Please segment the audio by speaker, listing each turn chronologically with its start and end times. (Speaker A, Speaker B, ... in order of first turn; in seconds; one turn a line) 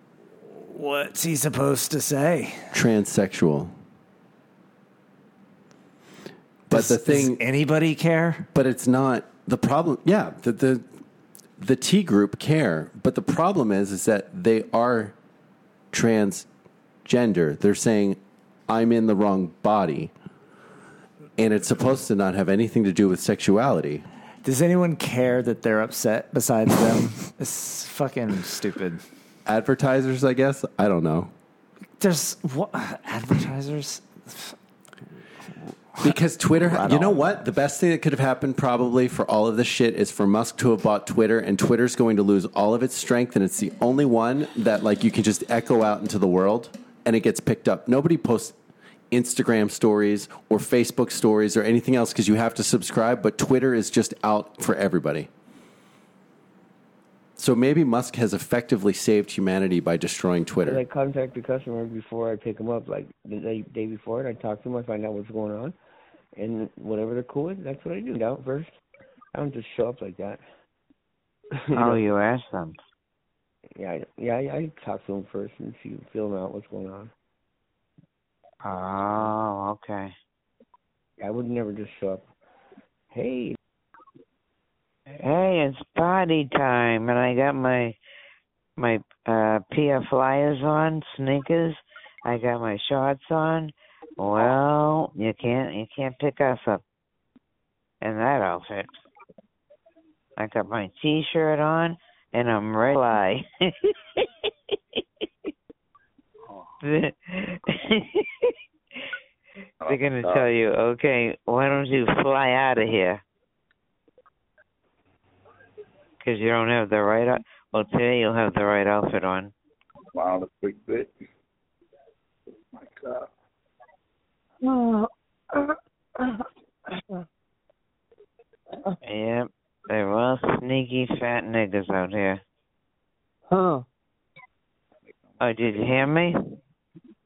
Speaker A: 0.5-2.7
Speaker B: 2.7-3.7
Speaker B: 6.7-7.4
Speaker A: 6.7-8.5
Speaker B: 8.5-10.8
Speaker B: 11.6-15.1
Speaker B: 15.9-16.5
Speaker B: 17.0-20.1
Speaker B: 21.4-24.0
Speaker A: 24.4-29.0
Speaker B: 29.4-31.3
Speaker A: 32.0-34.5
Speaker A: 36.0-37.4
Speaker B: 36.0-48.5
Speaker B: 49.1-55.3
Speaker B: 57.4-60.8
Speaker C: 60.6-65.8
Speaker C: 66.3-68.7
Speaker C: 69.3-70.4
Speaker C: 71.6-72.0
Speaker D: 71.8-72.8
Speaker C: 73.8-77.1
Speaker D: 78.6-80.1
Speaker C: 81.2-82.3
Speaker C: 83.1-83.6
Speaker D: 85.2-88.0
Speaker D: 88.8-96.8
Speaker D: 98.0-99.0
Speaker D: 100.4-103.9
Speaker D: 106.8-108.5
Speaker E: 109.8-110.5
Speaker D: 109.8-113.2
Speaker D: 116.2-119.5
Speaker E: 120.1-121.1
Speaker E: 122.8-123.2
Speaker D: 129.0-132.4
Speaker D: 135.4-136.5